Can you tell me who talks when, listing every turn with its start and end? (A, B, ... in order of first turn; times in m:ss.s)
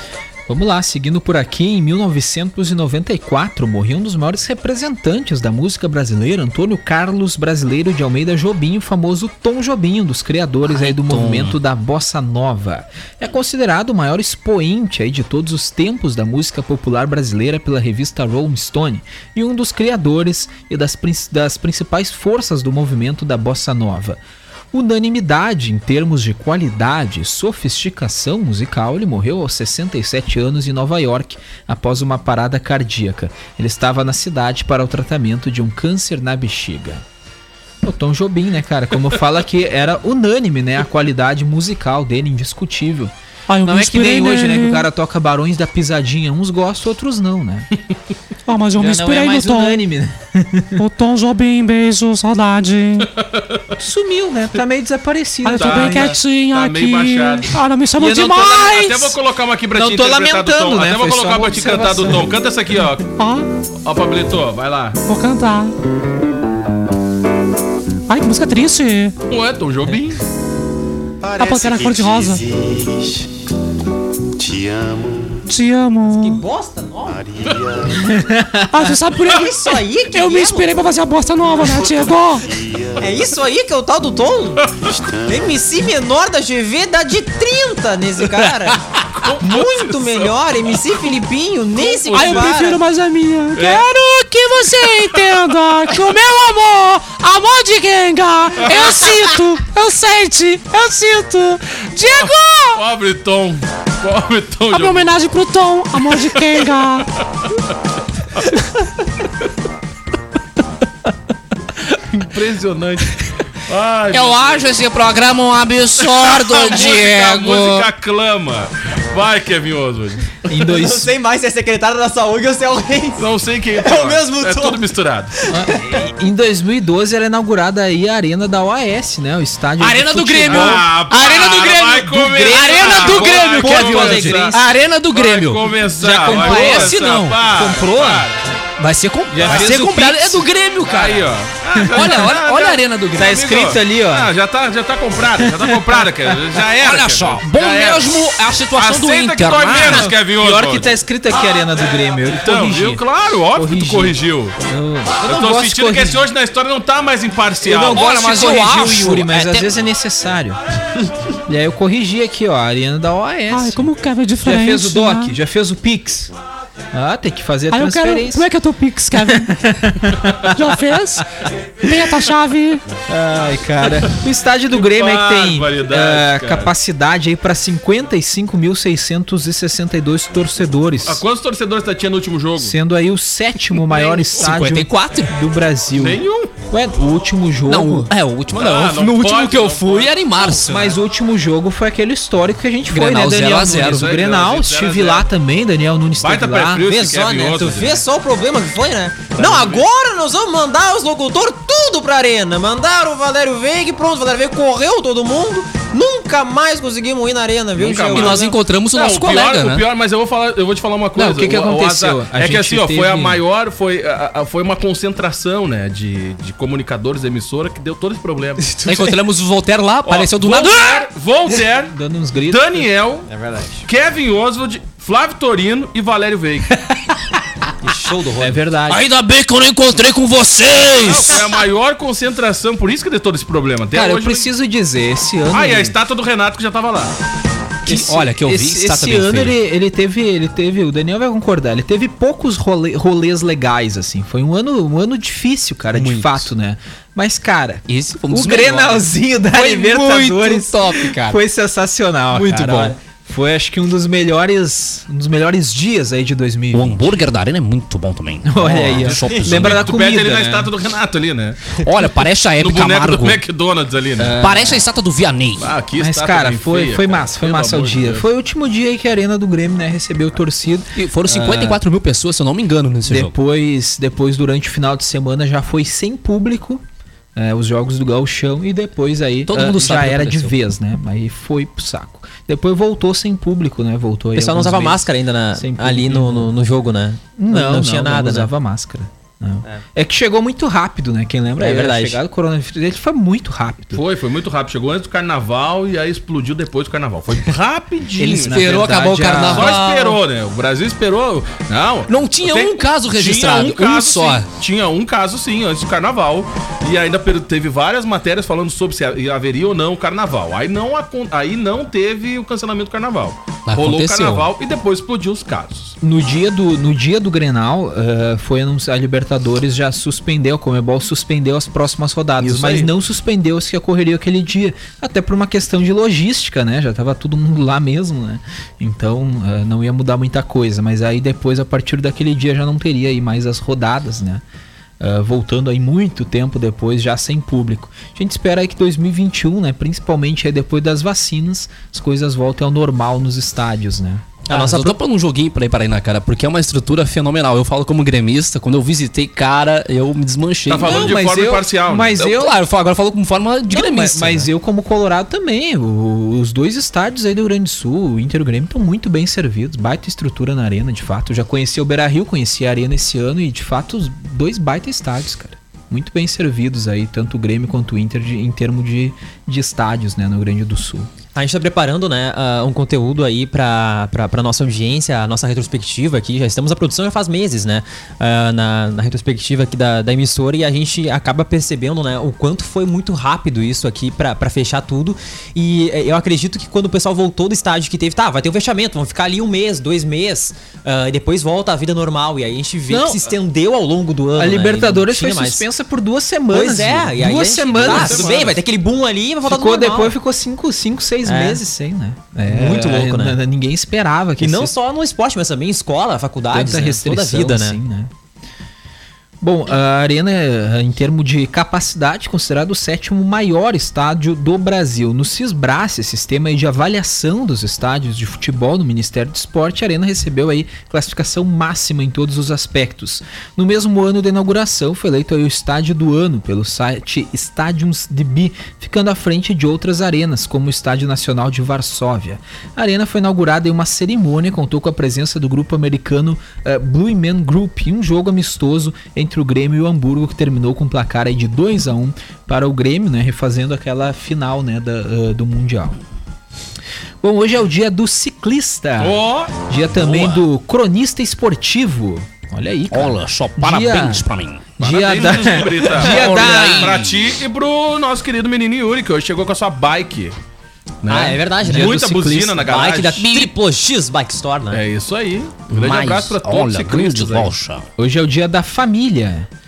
0:00.5-0:24.2 A
0:10.7-0:11.6 B
0:24.7-0:37.0 A
0:37.8-0:43.1 A
0:43.5-0:44.9 C
0:43.6-0:47.7 A
0:48.5-0:49.8 C
0:48.8-0:50.8 A
0:50.8-0:53.1 C
0:53.0-0:53.6 D
0:53.8-0:56.2 A
0:55.4-0:58.5 C
0:55.5-0:57.6 D
0:58.0-0:59.2 A
0:58.2-1:03.0 D
0:59.7-1:02.3 A
1:03.2-1:03.5 C
1:03.8-1:05.0 D
1:05.0-1:05.7 C
1:08.1-1:09.2 C
1:09.3-1:10.2 D
1:11.3-1:12.4 C
1:15.5-1:16.4 C
1:16.2-1:17.3 E
1:17.9-1:19.0 A
1:18.7-1:22.5 C
1:19.2-1:20.7 E
1:23.0-1:28.8 E
1:29.1-1:30.3 D
1:29.4-1:32.8 E
1:31.9-1:32.5 D
1:32.0-1:42.8 C
1:33.5-1:33.8 D
1:34.8-1:35.3 D
1:38.6-1:39.3 D
1:42.1-1:45.1 D
1:44.7-1:47.1 C
1:46.0-1:46.7 D
1:52.1-1:53.1 D
1:53.7-1:54.6 D
1:54.1-1:57.9 B
1:56.0-2:00.2 D
2:00.5-2:01.1 A
2:00.5-2:03.2 E
2:03.2-2:05.3 D
2:03.8-2:04.8 E
2:05.5-2:10.9 A
2:09.8-2:18.2 B
2:10.4-2:14.6 D
2:12.3-2:14.7 A
2:15.1-2:18.3 D
2:16.0-2:18.2 A
2:18.8-2:21.2 B
2:19.3-2:20.4 A
2:19.4-2:19.8 D
2:20.9-2:28.2 D
2:21.7-2:22.4 A
2:21.9-2:23.5 B
2:23.2-2:24.3 A
2:25.4-2:26.3 A
2:26.8-2:30.1 B
2:28.7-2:30.9 D
2:30.0-2:36.2 A
2:32.3-2:34.5 D
2:35.2-2:38.0 D
2:37.6-2:40.6 A
2:37.9-2:39.7 B
2:41.5-2:43.9 A
2:43.5-2:45.4 C
2:44.4-2:46.3 A
2:46.9-2:48.5 A
2:47.7-2:49.5 C
2:49.1-2:50.8 A
2:50.5-2:51.2 C
2:51.8-2:52.8 C
2:53.1-3:01.2 A
2:54.7-2:56.7 D
3:01.0-3:02.8 D
3:02.6-3:08.1 A
3:03.9-3:04.3 D
3:04.2-3:05.3 B
3:05.9-3:06.5 D
3:07.7-3:11.0 B
3:08.5-3:10.6 D
3:10.6-3:16.9 A
3:12.9-3:14.1 B
3:13.8-3:15.3 D
3:16.2-3:18.0 D
3:16.8-3:28.5 E
3:19.3-3:19.8 D
3:27.8-3:38.7 D
3:28.1-3:29.8 B
3:31.1-3:33.4 A
3:38.6-3:39.1 E
3:38.8-3:41.0 B
3:40.0-3:42.0 D
3:41.9-3:42.9 A
3:42.5-3:43.3 D
3:43.3-3:43.8 E
3:43.9-3:46.8 D
3:47.8-3:48.6 E
3:48.4-3:49.1 A
3:48.9-3:51.5 B
3:51.1-3:54.5 D
3:53.9-3:56.0 A
3:55.5-3:57.1 D
3:57.8-4:17.2 A
3:57.8-3:59.6 B
4:05.9-4:06.5 B
4:07.9-4:11.4 B
4:12.4-4:12.9 B
4:16.7-4:19.8 B
4:18.4-4:20.7 A
4:19.5-4:21.7 D
4:21.8-4:23.4 B
4:22.6-4:24.4 D
4:24.2-4:24.8 A
4:24.4-4:25.7 B
4:25.6-4:28.2 D
4:26.0-4:31.8 A
4:31.0-4:33.3 B
4:33.1-4:36.8 A
4:37.4-4:46.5 A
4:39.5-4:40.6 B
4:44.3-4:48.5 E
4:47.4-4:54.0 A
4:51.6-4:52.2 E
4:53.9-4:58.6 D
4:58.2-4:59.8 A
4:58.5-5:00.2 B
4:59.4-5:16.0 D
5:02.1-5:04.4 B
5:13.7-5:14.5 B
5:16.0-5:34.4 A
5:22.4-5:22.9 D
5:35.0-5:44.3 A
5:44.5-5:45.0 E
5:44.5-5:51.2 B
5:50.7-5:52.2 D
5:50.8-5:52.6 A
5:52.2-5:54.5 B
5:53.7-6:11.1 A
6:11.3-6:35.6 E
6:32.9-6:33.3 A
6:34.4-6:38.5 A
6:36.5-6:40.1 E
6:37.7-6:38.6 D
6:39.4-6:44.8 A
6:41.2-6:41.6 E
6:42.5-6:43.4 E
6:44.4-6:47.8 E
6:46.5-6:48.1 A
6:49.4-7:26.0 A
7:27.2-7:34.3 A
7:29.0-7:29.5 D
7:30.0-7:30.4 B
7:32.9-7:34.7 B
7:34.8-7:37.0 A
7:34.8-7:40.4 D
7:35.8-7:37.3 B
7:41.0-7:43.2 D
7:41.1-7:42.0 E
7:41.6-7:42.8 A
7:42.6-7:44.8 E
7:43.2-7:43.5 B
7:44.7-7:47.5 D
7:45.7-7:47.8 B
7:48.0-7:49.5 A